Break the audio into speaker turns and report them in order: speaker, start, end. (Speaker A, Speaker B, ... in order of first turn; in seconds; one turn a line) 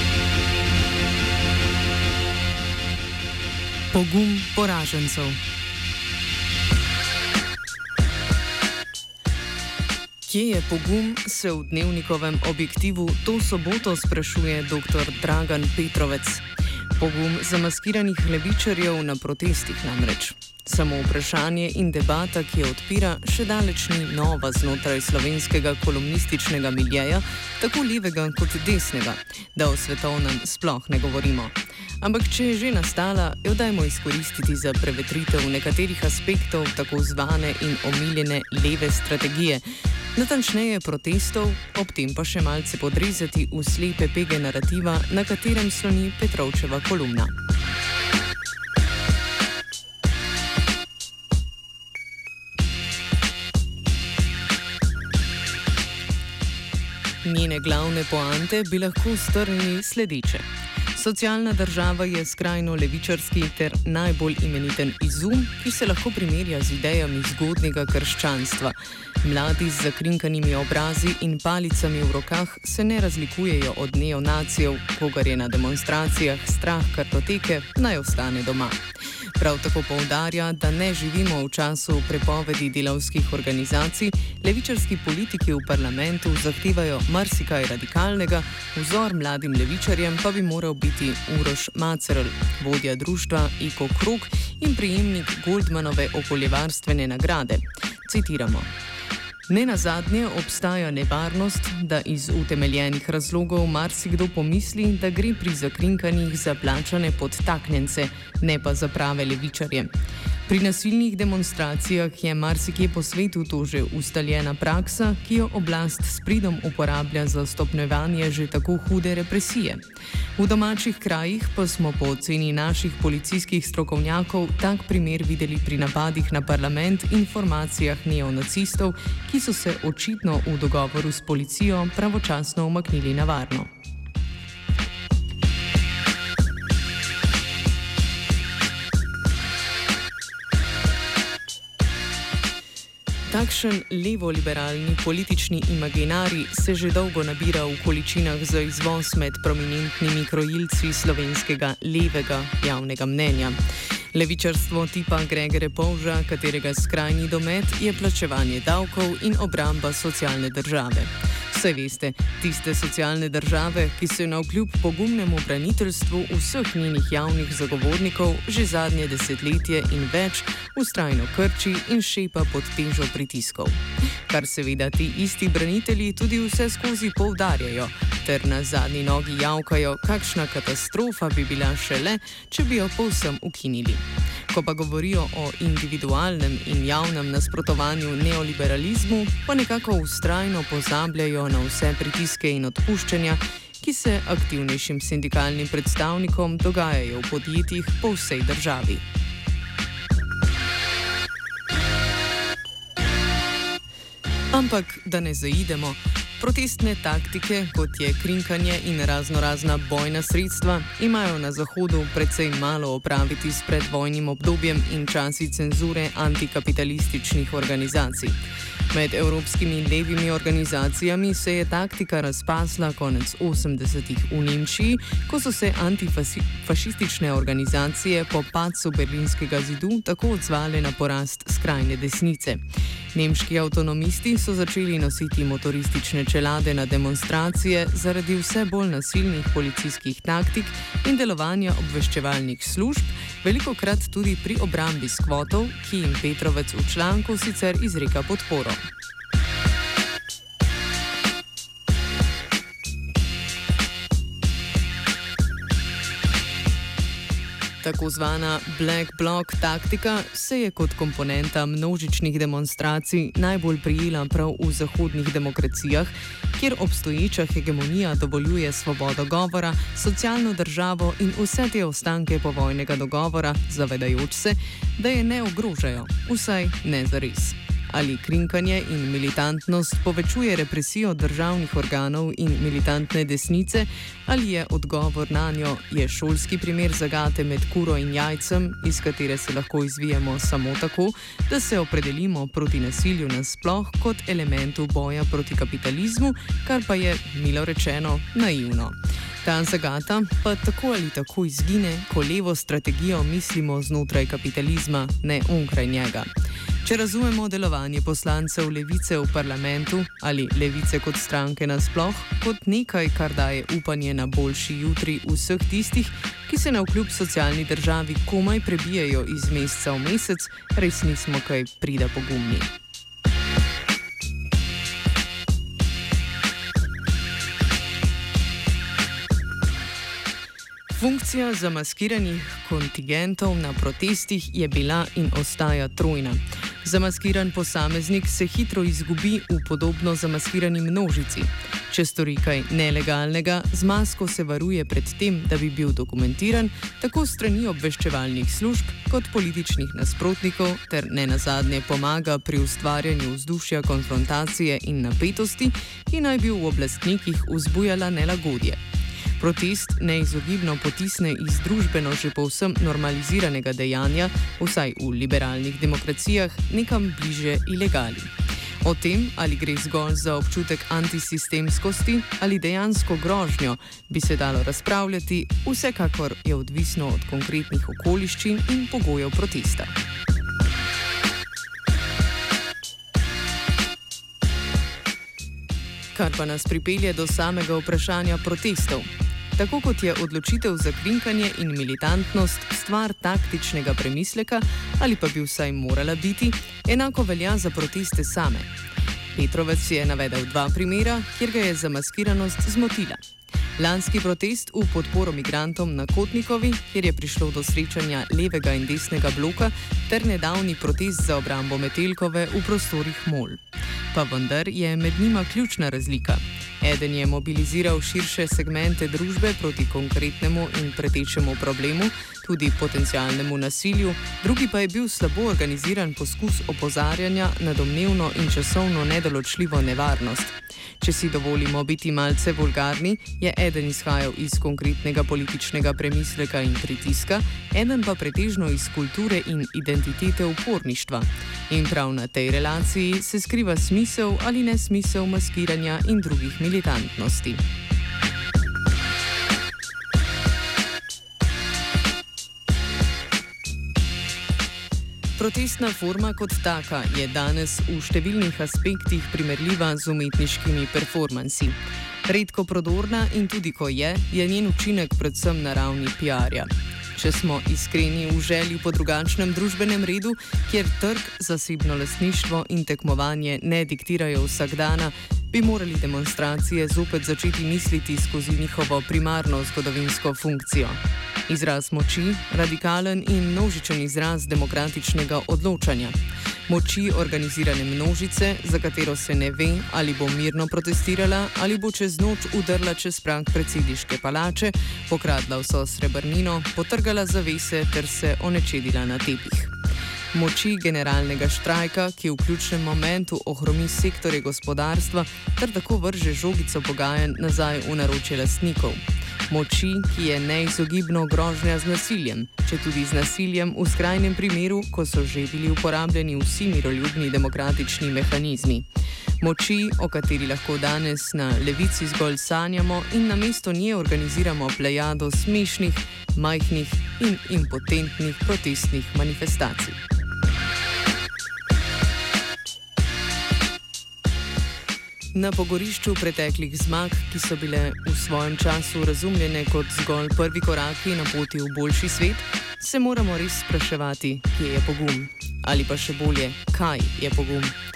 Speaker A: 3.9-5.4
Speaker A: 10.2-16.4
Speaker A: 17.0-47.3
Speaker A: 57.2-78.8
Speaker A: 79.4-98.7
Speaker A: 99.5-109.9
Speaker A: 110.5-119.8
Speaker A: 120.4-133.7
Speaker A: 143.3-153.6
Speaker A: 154.1-199.1
Speaker A: 204.5-218.4
Speaker A: 218.9-248.8
Speaker A: 257.8-306.3
Speaker A: 306.8-322.7
Speaker A: 330.9-358.8
Speaker A: 359.4-379.9
Speaker A: 386.1-398.7
Speaker A: 399.3-403.2
Speaker A: 403.8-447.6
Speaker A: 455.4-499.7
Speaker A: 500.3-518.9
Speaker A: 519.4-530.0
Speaker A: 535.3-547.8